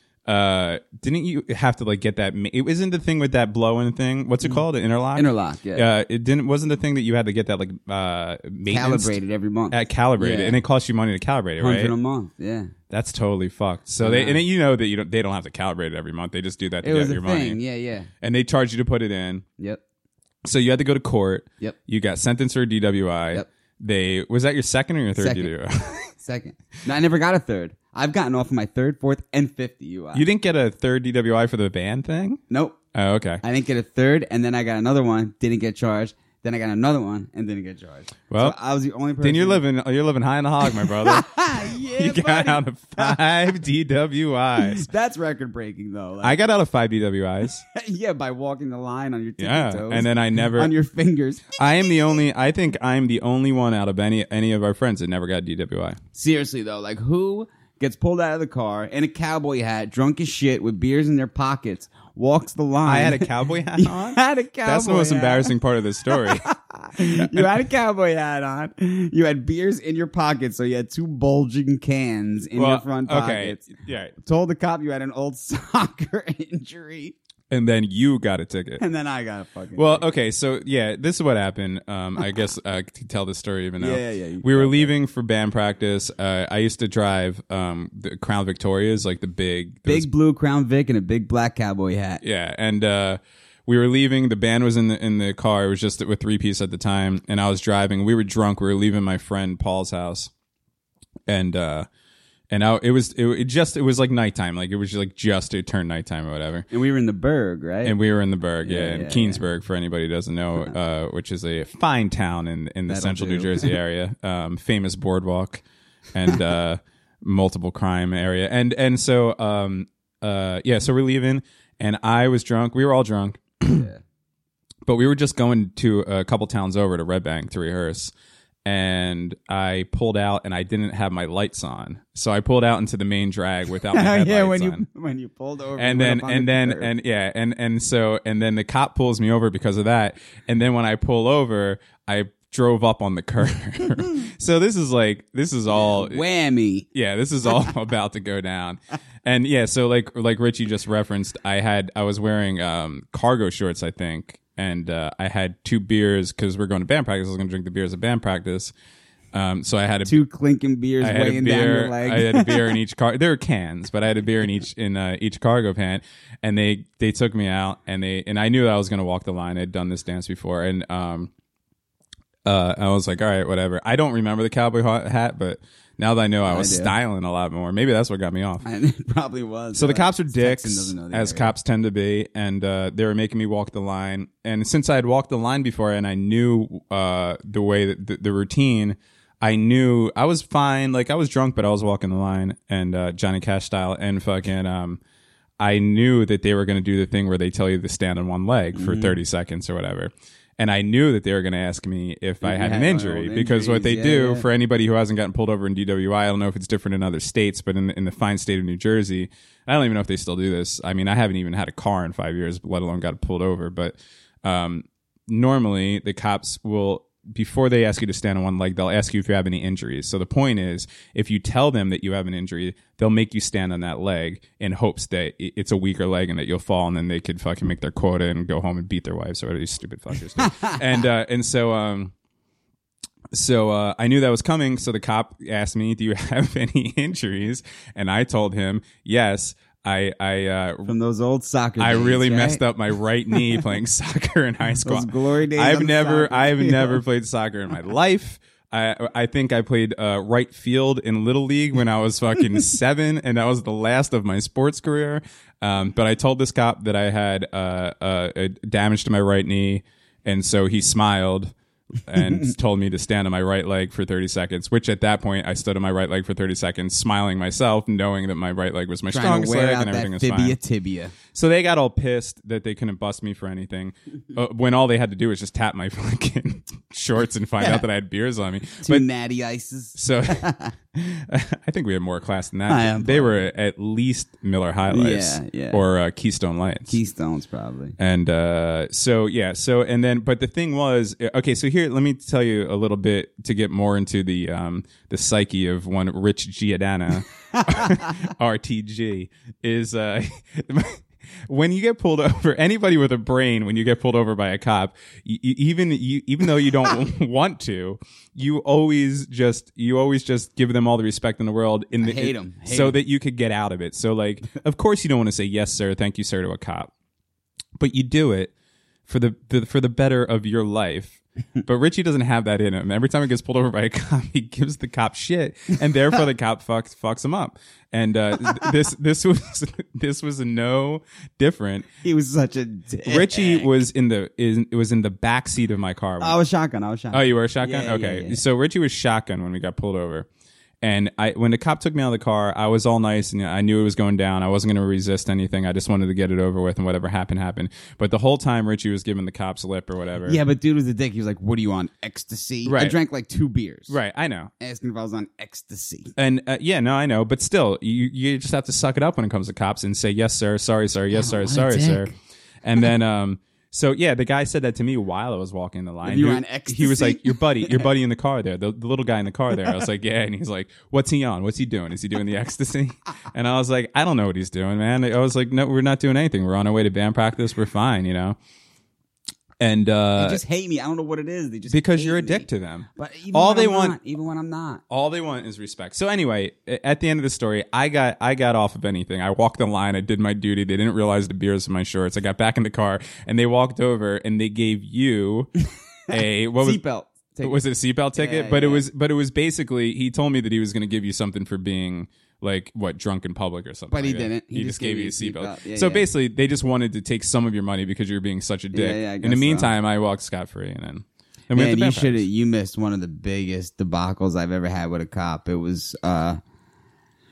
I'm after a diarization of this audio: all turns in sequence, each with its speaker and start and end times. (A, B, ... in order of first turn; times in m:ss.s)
0:00.3-0:09.2 A
0:05.2-0:05.9 B
0:08.7-0:10.6 B
0:09.7-0:11.9 A
0:11.6-0:12.7 B
0:12.9-0:17.6 A
0:14.0-0:14.4 B
0:16.8-0:18.1 B
0:18.2-0:19.5 A
0:20.4-0:26.1 A
0:25.2-0:25.5 B
0:26.1-0:30.3 B
0:30.1-0:32.4 A
0:32.5-0:32.8 B
0:32.9-0:33.4 A
0:33.4-0:39.6 B
0:38.3-0:38.6 A
0:39.2-0:44.9 A
0:40.8-0:43.3 B
0:44.6-0:46.4 B
0:46.2-0:47.6 A
0:47.7-0:51.6 B
0:49.4-0:50.7 A
0:51.6-0:56.0 A
0:56.2-1:05.6 B
1:02.8-1:07.5 A
1:06.1-1:13.7 B
1:12.6-1:14.1 A
1:14.2-1:17.2 B
1:17.5-1:18.8 A
1:18.8-1:20.1 B
1:19.8-1:30.1 A
1:23.8-1:24.9 B
1:29.8-1:32.2 B
1:32.2-1:40.3 A
1:41.3-1:41.9 A
1:42.5-1:46.7 A
1:46.7-1:48.0 B
1:47.8-2:03.9 A
1:48.6-1:49.4 B
1:52.9-1:53.8 B
2:03.7-2:04.0 B
2:04.8-2:08.1 A
2:08.6-2:14.8 A
2:13.9-2:16.9 B
2:15.8-2:26.2 A
2:25.7-2:26.9 B
2:26.9-2:38.7 A
2:39.3-2:40.2 A
2:40.1-2:42.6 B
2:41.0-2:51.3 A
2:52.4-2:58.7 A
2:56.5-2:56.9 B
2:58.6-3:01.5 B
2:59.7-3:15.0 A
3:15.6-3:52.1 A
3:18.8-3:19.2 B
3:22.4-3:24.5 B
3:50.5-3:50.8 B
3:53.3-4:00.9 A
4:00.9-4:02.6 B
4:01.8-4:21.5 A
4:04.8-4:07.0 B
4:22.1-4:30.6 A
4:22.2-4:22.5 B
4:29.1-4:31.2 B
4:31.3-4:39.0 A
4:38.8-4:40.8 B
4:40.0-4:47.0 A
4:42.7-4:43.4 B
4:44.9-4:45.8 B
4:46.9-4:48.0 B
4:48.0-5:16.9 A
5:12.0-5:13.0 B
5:17.8-5:18.5 A
5:19.1-5:31.9 A
5:32.0-5:33.7 B
5:33.0-5:36.4 A
5:36.2-5:38.4 B
5:37.1-5:40.3 A
5:40.8-5:50.4 A
5:50.2-5:54.0 B
5:52.7-5:53.0 A
5:53.9-5:54.5 A
5:54.6-5:56.1 B
5:56.2-6:02.1 A
6:01.2-6:02.2 B
6:02.6-6:18.4 A
6:06.0-6:07.9 B
6:19.6-6:20.4 A
6:20.2-6:24.8 B
6:21.7-6:24.0 A
6:24.9-6:35.5 A
6:36.1-6:36.8 A
6:36.1-6:38.9 B
6:37.4-6:52.3 A
6:43.9-6:46.1 B
6:48.7-6:49.7 B
6:51.5-6:56.4 B